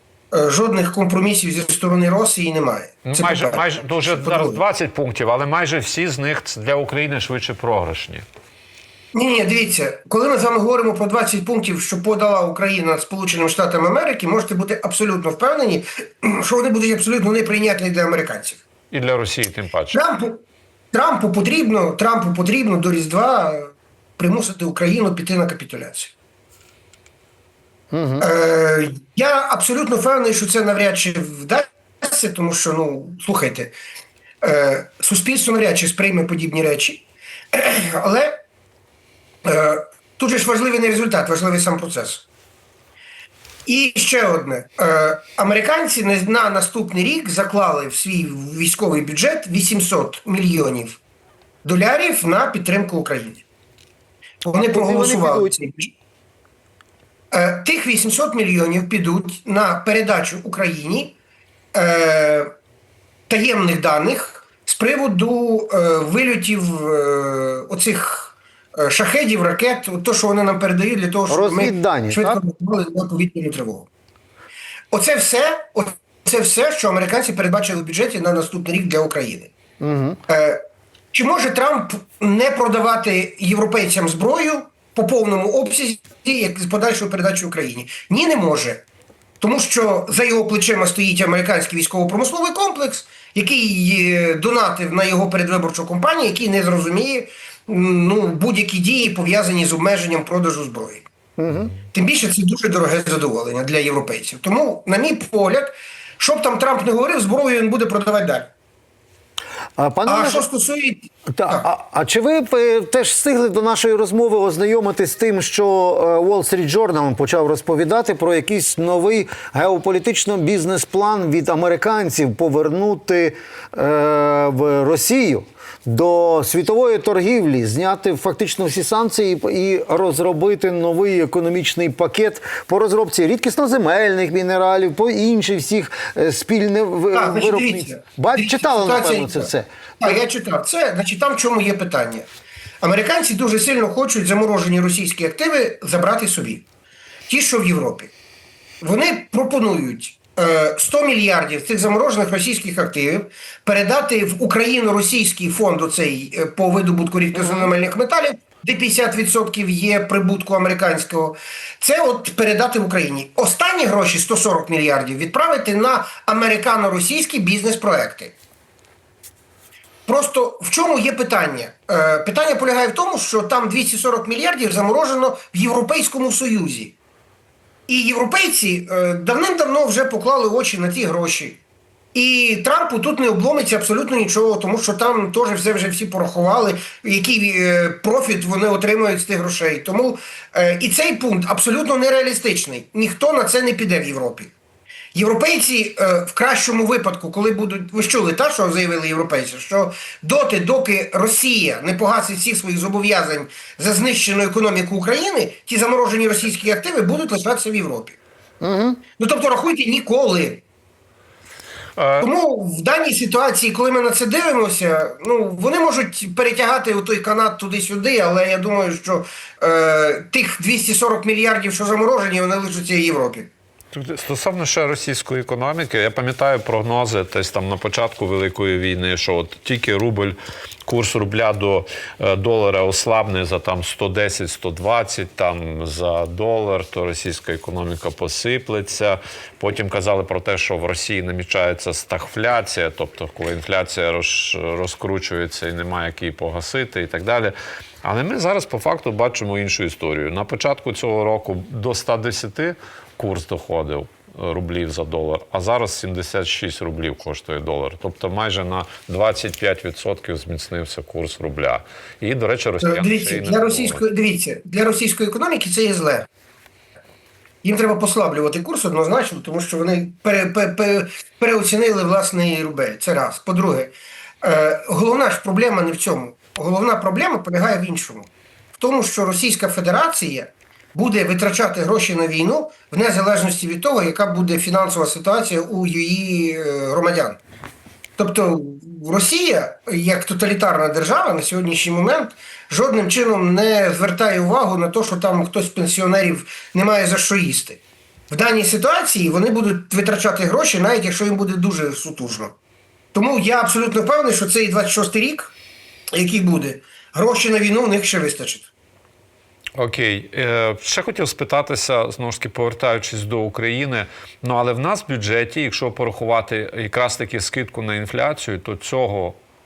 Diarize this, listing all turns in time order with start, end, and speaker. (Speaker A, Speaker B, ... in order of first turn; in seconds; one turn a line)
Speaker A: 0.3-4.6
Speaker B: 3.0-8.2
Speaker A: 9.1-18.6
Speaker B: 18.9-20.0
Speaker A: 19.9-20.4
Speaker A: 20.9-26.1
Speaker C: 27.9-28.3
Speaker A: 28.2-33.7
Speaker A: 34.4-38.4
Speaker A: 39.4-42.2
Speaker A: 43.6-51.0
Speaker A: 51.6-53.4
Speaker A: 54.4-55.9
Speaker C: 54.7-55.5
Speaker A: 57.3-61.1
Speaker A: 61.7-62.5
Speaker A: 63.3-73.9
Speaker C: 71.3-72.4
Speaker A: 74.9-79.5
Speaker C: 79.8-80.2
Speaker A: 80.3-80.6
Speaker A: 81.1-88.8
Speaker A: 89.4-101.0
Speaker C: 101.4-101.7
Speaker A: 101.9-108.5
Speaker C: 109.8-110.5
Speaker A: 110.0-111.7
Speaker C: 111.3-139.7
Speaker A: 137.1-142.2
Speaker A: 142.8-146.6
Speaker A: 147.3-148.1
Speaker A: 148.8-168.3
Speaker A: 170.1-176.9
Speaker A: 177.9-181.6
Speaker A: 182.1-194.5
Speaker A: 195.1-208.2
Speaker C: 208.6-209.0
Speaker A: 209.2-210.6
Speaker B: 212.0-212.3
Speaker A: 212.2-223.5
Speaker B: 223.9-264.0
Speaker A: 262.8-266.2
Speaker A: 267.6-287.4
Speaker A: 288.2-302.5
Speaker A: 303.1-305.5
Speaker A: 306.1-308.7
Speaker B: 309.8-319.4